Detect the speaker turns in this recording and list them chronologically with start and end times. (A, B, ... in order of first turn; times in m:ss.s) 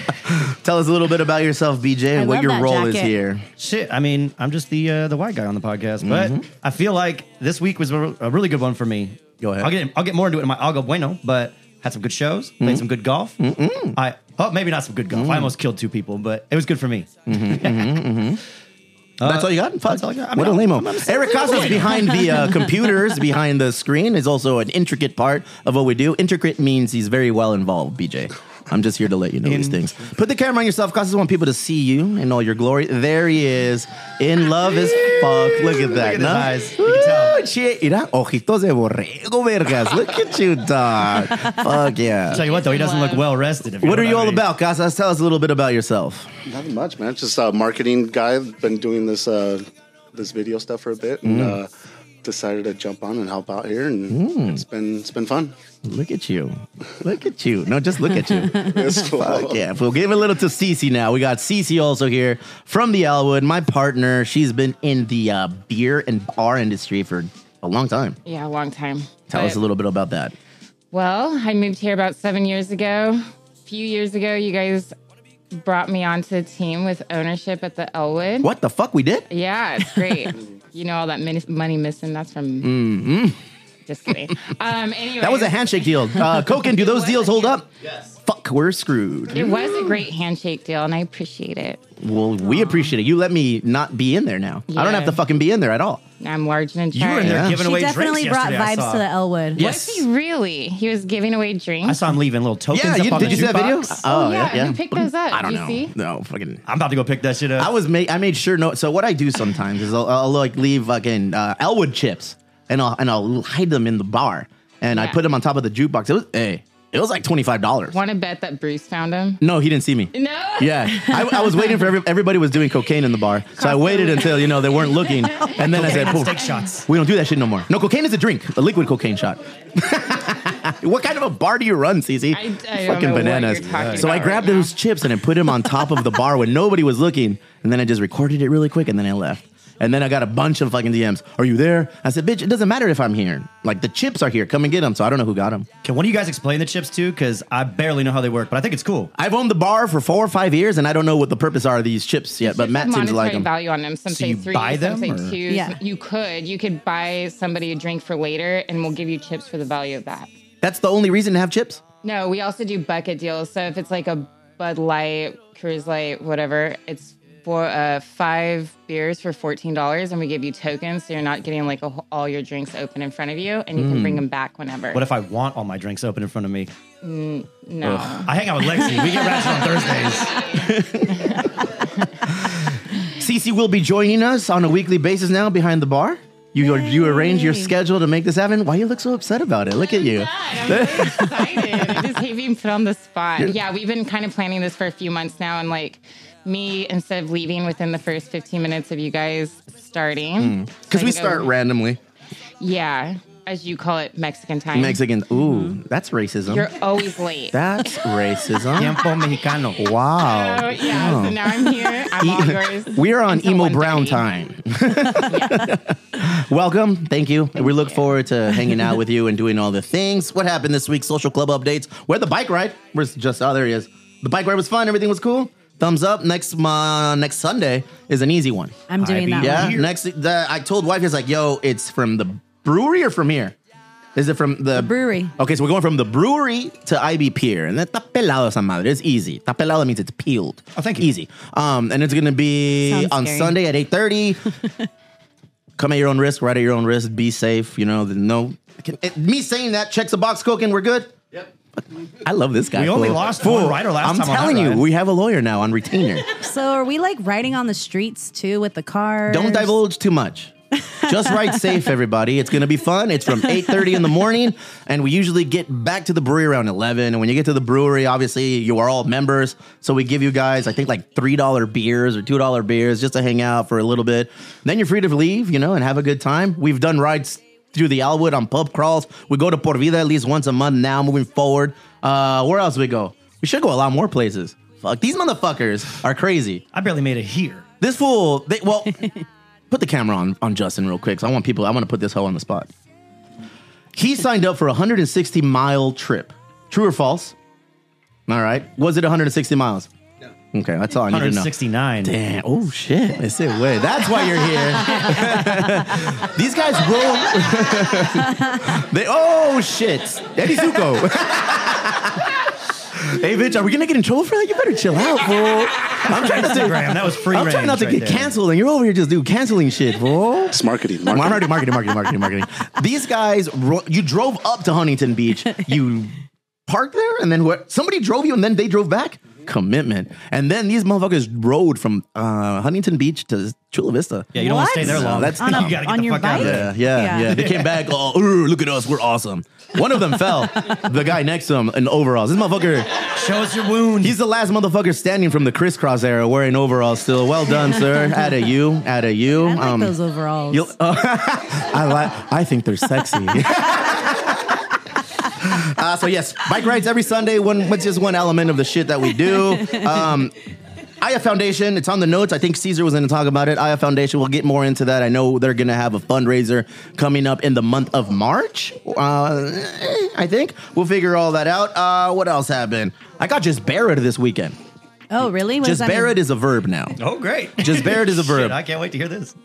0:00.2-0:03.5 A
0:02.1-0:03.2 B
0:03.6-0:13.4 C
0:06.0-0:06.4 A
0:09.4-0:09.7 A
0:13.4-0:14.0 A
0:14.0-0:17.9 C
0:15.1-0:15.5 A
0:17.3-0:18.4 A
0:19.2-0:22.5 C
0:19.2-0:42.5 A
0:22.0-0:22.4 B
0:29.4-0:29.8 C
0:35.8-0:37.4 C
0:42.3-0:44.4 C
0:42.3-0:43.3 D
0:43.8-0:46.3 A
0:46.5-0:51.7 E
0:51.2-0:51.6 A
0:52.2-0:55.5 E
0:54.1-0:54.6 A
0:55.8-1:08.2 A
0:58.5-0:59.7 E
1:08.2-1:09.6 D
1:09.3-1:10.4 A
1:10.9-1:14.9 D
1:15.5-1:18.5 D
1:18.4-1:19.3 A
1:19.3-1:22.8 D
1:22.6-1:23.4 A
1:23.9-1:27.7 D
1:25.2-1:27.7 A
1:28.2-1:29.7 A
1:29.3-1:31.8 D
1:32.0-1:36.0 A
1:34.7-1:35.2 D
1:36.2-1:37.5 D
1:36.9-1:39.1 C
1:37.2-1:37.6 A
1:37.5-1:39.6 B
1:39.6-1:40.0 C
1:39.6-1:42.1 D
1:41.8-1:44.0 C
1:42.7-1:46.6 A
1:44.0-1:45.9 D
1:46.7-1:47.7 C
1:47.6-1:58.0 A
1:54.9-1:55.2 D
1:57.9-1:59.4 D
1:59.4-2:25.7 A
2:00.1-2:01.4 D
2:03.8-2:04.3 D
2:05.6-2:06.9 C
2:12.3-2:14.7 D
2:13.7-2:14.3 C
2:25.8-2:29.1 C
2:29.2-2:33.5 A
2:32.4-2:40.3 D
2:34.1-2:35.4 C
2:35.5-2:35.8 B
2:40.6-2:41.8 A
2:42.0-2:55.0 D
2:53.8-2:54.2 A
2:54.9-2:56.7 C
2:57.0-2:58.3 D
2:57.8-2:58.2 A
2:58.0-3:00.4 C
2:58.8-3:01.4 A
3:03.2-3:12.0 A
3:06.6-3:07.7 B
3:09.9-3:21.5 D
3:20.4-3:22.0 A
3:22.6-3:25.0 D
3:24.7-3:26.7 A
3:25.4-3:25.8 B
3:26.5-3:27.9 D
3:27.5-3:29.0 A
3:28.8-3:29.8 C
3:29.8-3:31.6 A
3:30.2-3:34.2 D
3:32.2-3:53.6 A
3:35.3-3:35.7 D
3:48.9-3:49.8 B
3:49.0-3:49.9 C
3:54.2-4:04.4 A
3:54.8-3:55.3 B
4:00.8-4:01.1 C
4:02.9-4:03.5 B
4:05.8-4:11.2 A
4:11.7-4:16.3 A
4:12.8-4:14.8 C
4:16.4-4:19.8 B
4:19.3-4:46.6 A
4:21.3-4:21.5 B
4:46.7-4:47.6 C
4:47.8-4:49.1 A
4:49.7-4:52.7 A
4:54.0-4:57.4 A
4:58.3-4:59.9 A
5:00.5-5:01.5 A
5:01.1-5:02.2 C
5:02.0-5:12.3 A
5:13.0-5:26.1 A
5:16.1-5:18.3 C
5:20.5-5:21.5 E
5:26.7-5:43.0 A
5:34.3-5:37.8 C
5:34.4-5:37.4 B
5:43.2-5:44.2 C
5:44.0-5:50.0 A
5:49.4-5:50.7 B
5:50.5-5:54.6 A
5:55.4-6:00.4 A
6:01.0-6:14.6 A
6:15.1-6:16.2 B
6:15.6-6:17.0 A
6:17.0-6:19.4 C
6:17.6-6:18.6 A